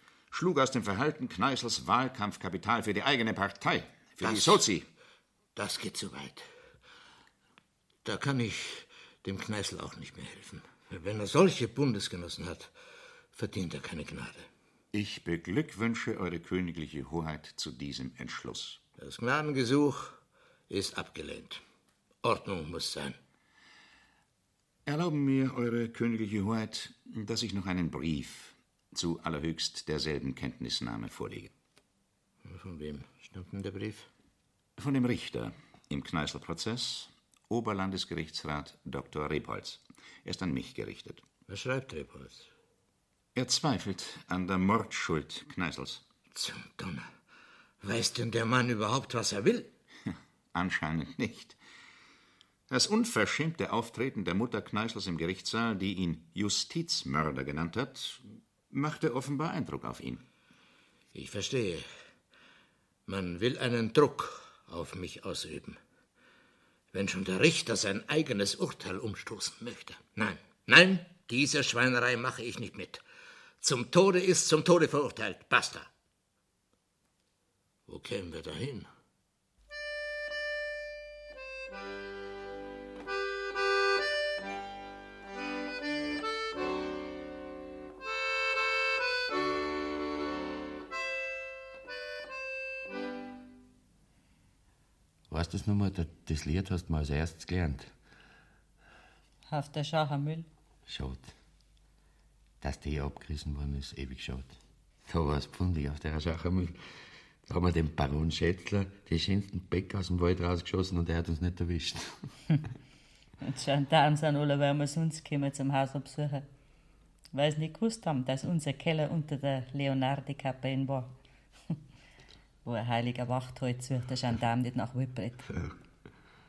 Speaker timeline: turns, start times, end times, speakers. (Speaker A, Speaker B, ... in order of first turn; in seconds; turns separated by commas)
Speaker A: 0.3-4.9, Speaker B: 4.2-4.7, Speaker B: 5.6-6.5, Speaker B: 8.0-12.7, Speaker B: 13.3-14.5, Speaker A: 14.9-18.8, Speaker B: 19.0-20.2, Speaker B: 20.7-21.6, Speaker B: 22.2-23.2, Speaker A: 24.9-31.5, Speaker B: 32.4-34.1, Speaker A: 34.8-41.2, Speaker B: 41.5-42.5, Speaker A: 43.4-46.0, Speaker B: 46.3-47.1, Speaker B: 47.8-49.7, Speaker A: 50.5-51.6, Speaker A: 52.7-60.2, Speaker B: 61.1-61.9, Speaker B: 63.1-65.8, Speaker B: 66.9-73.0, Speaker B: 73.6-75.9, Speaker B: 77.9-78.9, Speaker C: 95.3-97.9, Speaker D: 99.5-100.5, Speaker C: 100.9-101.3, Speaker C: 102.6-104.6, Speaker C: 105.1-106.8, Speaker C: 107.5-112.1, Speaker D: 113.4-116.5, Speaker D: 117.3-121.1, Speaker D: 122.7-125.4